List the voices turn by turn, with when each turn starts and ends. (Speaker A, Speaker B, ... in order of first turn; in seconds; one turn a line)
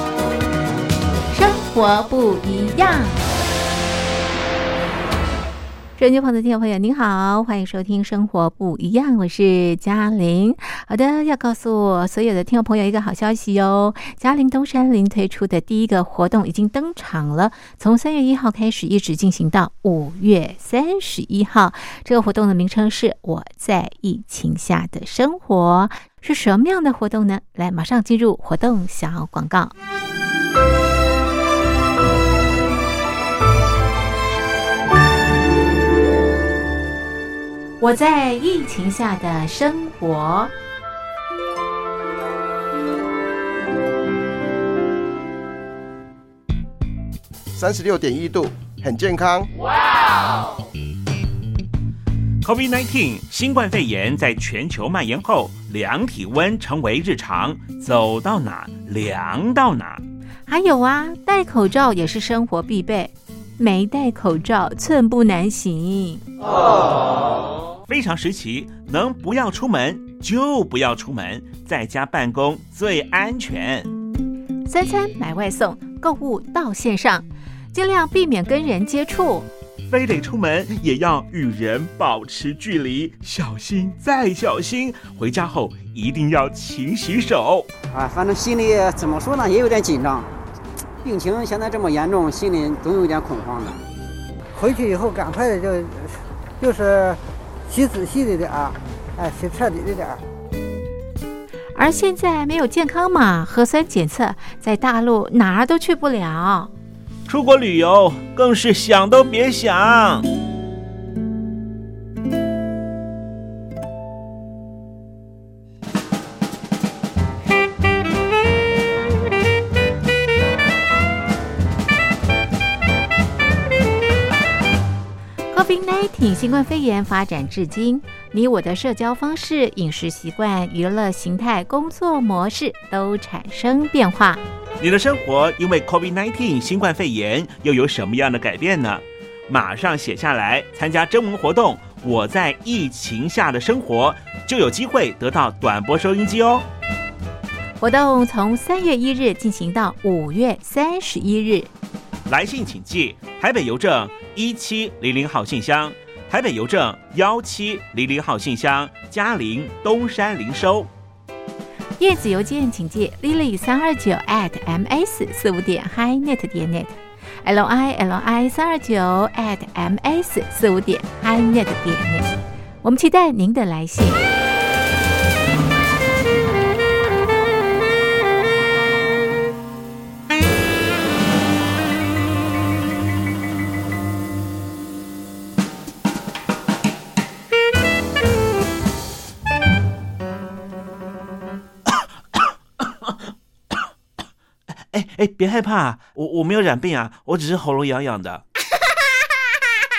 Speaker A: 1.3-3.2
Speaker A: 6.0-29.7
Speaker A: 37.8-40.5
Speaker B: 47.5-49.5
Speaker C: 52.4-60.0
Speaker A: 60.5-66.2
Speaker C: 67.9-73.9
Speaker A: 74.7-79.5
Speaker C: 79.9-87.7
Speaker D: 87.9-90.3
Speaker D: 91.0-93.8
Speaker E: 94.5-100.2
Speaker A: 101.7-106.7
Speaker C: 107.3-110.3
Speaker A: 125.5-134.4
Speaker C: 134.8-146.7
Speaker A: 147.8-151.7
Speaker C: 152.3-160.9
Speaker A: 162.0-174.3
Speaker C: 194.9-198.4